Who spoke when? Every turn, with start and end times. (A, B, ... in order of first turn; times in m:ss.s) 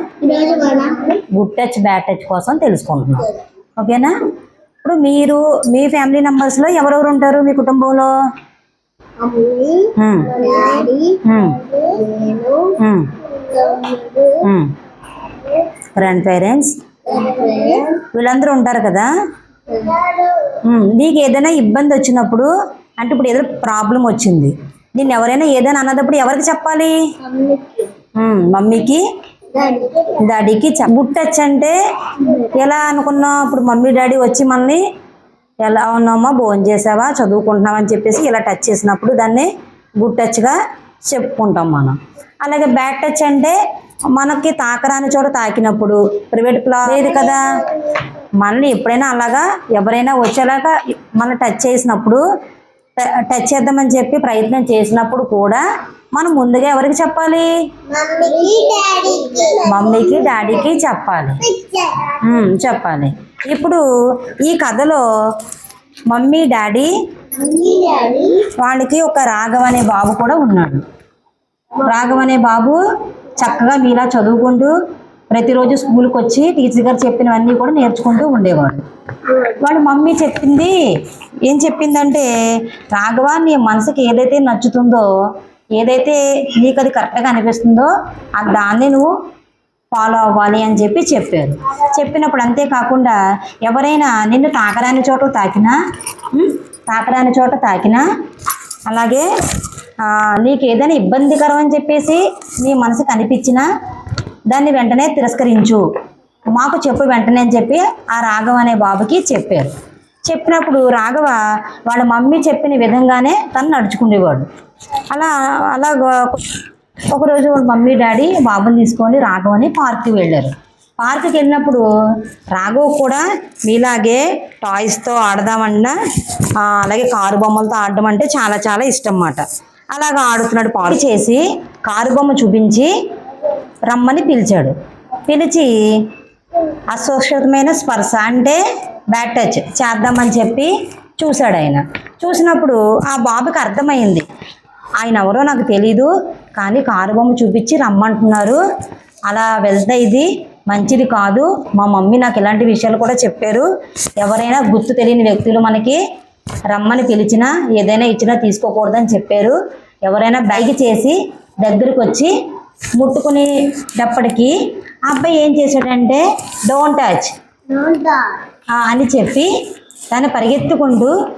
0:00.2-0:01.2 A
0:01.3-0:04.2 B
0:04.8-0:08.1 B
0:09.2-0:12.8 A
0:10.0-0:10.4 B
0:11.2-0:11.6 B
0:12.8-0:13.1 B
0:13.3-0:14.4 A
0:14.4-0:14.7 B
0:16.0-0:16.7 B
0:17.1-0:18.0 A
0:18.1-0:19.1 B
0:19.7-0:20.6 A
0:20.6-0:26.9 B
0:27.2-0:27.9 A
0:28.2-0:29.0 B
0:29.5-0:30.3 A
0:30.2-0:31.8 B
0:32.2-0:32.5 A
0:32.5-0:34.8 B
0:35.6-0:43.6 B
0:44.1-0:47.6 B
0:47.0-0:48.0 A
0:48.4-0:52.2 B
0:53.0-0:57.5 B
0:57.9-1:00.5 A
0:59.7-1:01.4 B
1:01.4-1:02.2 A
1:02.2-1:05.0 B
1:06.1-1:06.9 B
1:07.3-1:08.5 A
1:08.6-1:10.8 B
1:11.8-1:12.8 B
1:13.4-1:14.7 B
1:15.3-1:18.8 B
1:19.5-1:20.8 B
1:21.4-1:22.3 B
1:22.9-1:25.1 B
1:25.8-1:29.1 B
1:29.9-1:35.8 B
1:36.3-1:38.0 B
1:38.9-1:39.3 B
1:40.0-1:43.6 B
1:44.5-1:45.8 B
1:46.5-1:49.7 B
1:50.3-1:54.5 B
1:55.1-1:56.5 B
1:57.1-2:01.9 B
2:02.5-2:12.9 B
2:13.9-2:14.7 B
2:15.3-2:16.1 B
2:16.9-2:18.6 B
2:19.1-2:24.2 B
2:25.0-2:28.6 B
2:29.3-2:33.7 B
2:34.2-2:36.0 B
2:36.7-2:42.3 B
2:43.0-2:44.5 B
2:45.1-2:47.3 B
2:47.7-2:48.3 A
2:48.8-2:49.5 B
2:50.1-2:51.2 B